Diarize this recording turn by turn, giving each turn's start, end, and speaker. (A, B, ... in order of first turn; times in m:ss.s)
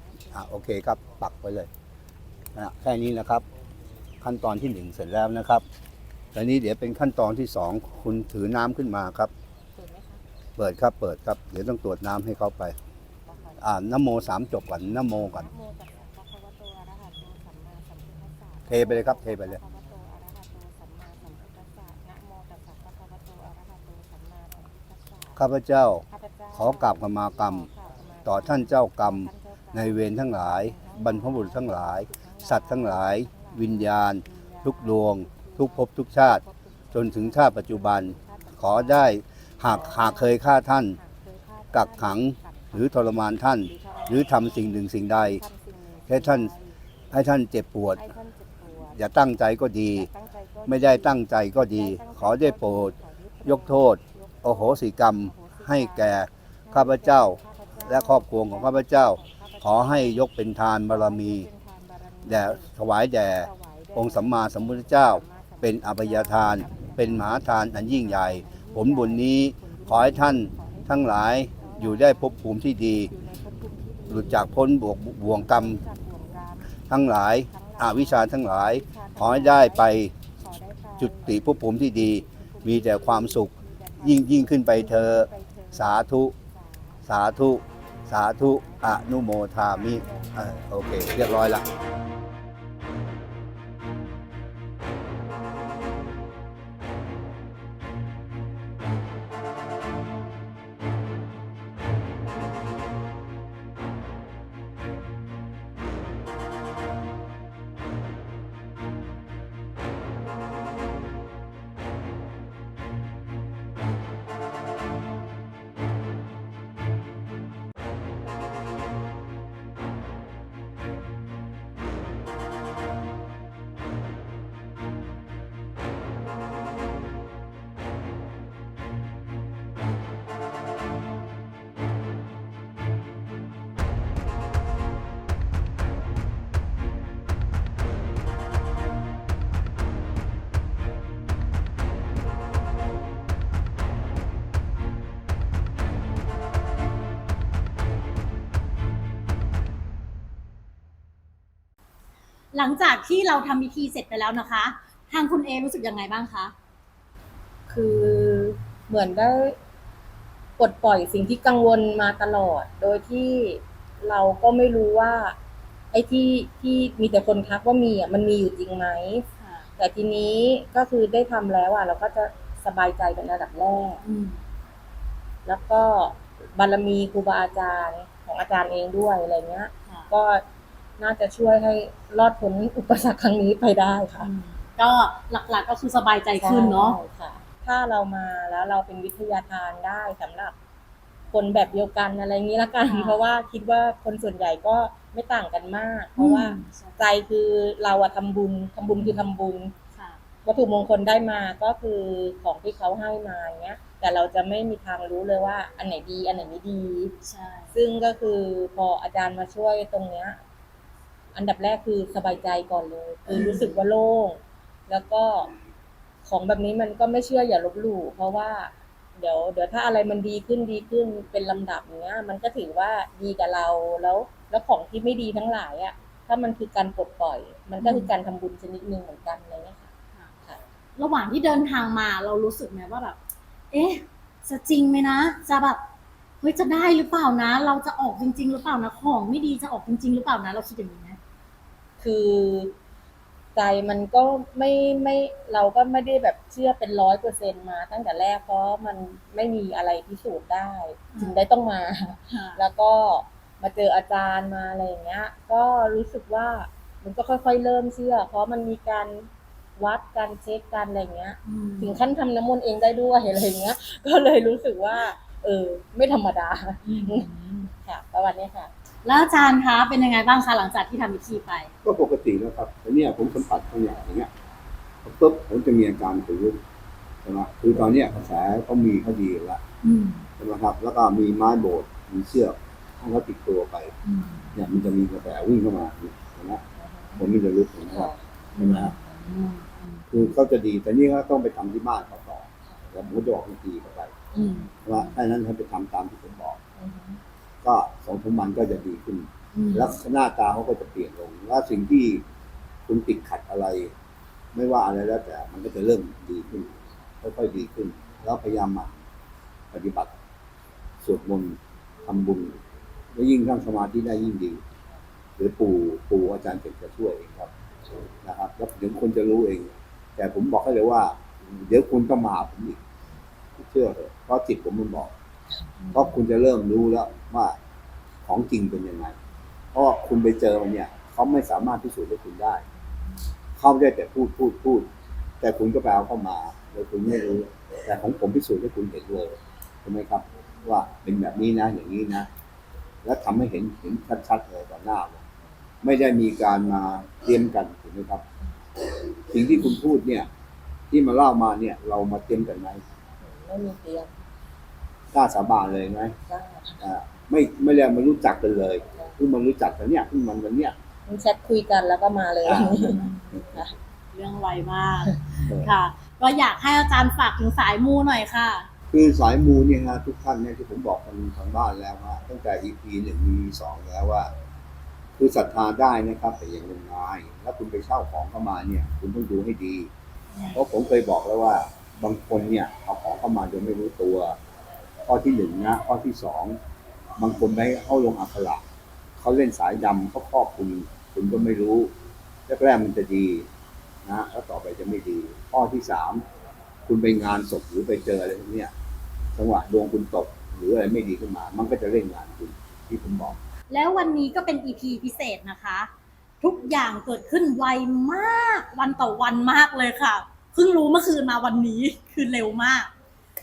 0:00.3-0:01.7 A
0:02.6-0:03.4 A
0:04.2-0:05.6 A
0:06.3-0:09.3 A
0:09.8-0:10.2 B
0:10.6-0:12.8 A
0:13.6-0:15.5 A
0:15.5-0:24.6 B
0:18.7-0:19.6 A
0:25.4-0:27.7 A
0:28.2-0:41.0 A
0:41.7-0:45.4 A
0:46.1-0:46.6 A
0:47.1-0:48.1 A
0:48.1-0:48.6 B
0:48.8-0:50.1 A
0:50.7-1:01.5 A
1:02.2-1:13.1 A
1:13.4-1:13.9 B
1:14.1-1:15.8 A
1:16.0-1:16.5 B
1:16.9-1:20.1 A
1:21.0-1:26.4 A
1:27.0-1:31.7 A
2:32.5-2:36.5 C
2:37.7-2:39.6 B
2:40.6-2:45.4 B
2:45.9-2:49.3 B
2:49.4-2:49.7 C
2:49.8-2:54.0 B
2:54.0-2:54.4 C
2:55.4-3:00.4 B
3:01.0-3:04.3 B
3:04.2-3:07.0 C
3:06.4-3:10.6 B
3:11.3-3:19.8 B
3:12.9-3:13.3 C
3:16.2-3:17.1 C
3:18.9-3:19.2 C
3:20.0-3:20.2 C
3:20.4-3:27.2 B
3:27.2-3:27.8 C
3:27.8-3:30.4 B
3:31.4-3:35.5 B
3:33.3-3:33.8 C
3:36.2-3:49.9 B
3:47.8-3:48.1 C
3:51.0-3:53.2 C
3:53.7-3:55.8 C
3:56.4-4:01.2 C
4:02.0-4:02.8 B
4:03.6-4:28.7 B
4:11.1-4:11.4 C
4:12.3-4:12.6 C
4:21.4-4:22.0 C
4:26.8-4:27.7 C
4:29.0-4:31.7 C
4:31.8-4:34.3 A
4:35.0-4:36.6 A
4:37.2-4:39.6 A
4:39.8-4:40.3 C
4:40.4-4:43.9 A
4:44.0-4:44.6 C
4:44.6-4:46.6 A
4:46.8-4:47.2 B
4:47.2-4:48.9 A
4:47.9-4:48.2 B
4:48.6-4:50.1 C
4:50.1-4:54.1 A
4:54.3-4:55.1 C
4:54.9-4:56.6 A
4:56.8-4:57.2 B
4:57.6-5:02.2 A
4:59.5-4:59.9 C
5:02.9-5:03.9 A
5:04.5-5:08.9 A
5:09.7-5:10.1 A
5:11.0-5:12.6 A
5:13.1-5:14.6 A
5:15.4-5:17.5 A
5:18.2-5:22.8 A
5:23.6-5:25.1 A
5:25.9-5:27.6 A
5:28.2-5:29.2 A
5:29.7-5:32.6 A
5:33.6-5:34.9 A
5:35.4-5:42.3 A
5:43.0-5:45.2 A
5:45.8-5:48.2 A
5:48.8-5:50.3 A
5:50.9-5:52.8 A
5:53.2-5:54.2 B
5:55.1-5:56.2 A
5:56.3-5:56.8 B
5:56.8-6:00.8 A
6:01.1-6:03.7 B
6:02.4-6:03.5 A
6:04.1-6:08.7 C
6:05.4-6:05.7 A
6:08.9-6:14.3 A
6:15.2-6:19.9 A
6:20.3-6:20.6 C
6:20.5-6:24.4 A
6:25.1-6:26.6 A
6:27.2-6:28.6 A
6:29.2-6:31.9 A
6:32.5-6:33.5 A
6:34.0-6:36.2 A
6:36.9-6:38.7 A
6:39.4-6:43.4 A
6:43.7-6:45.9 C
6:46.4-6:52.9 C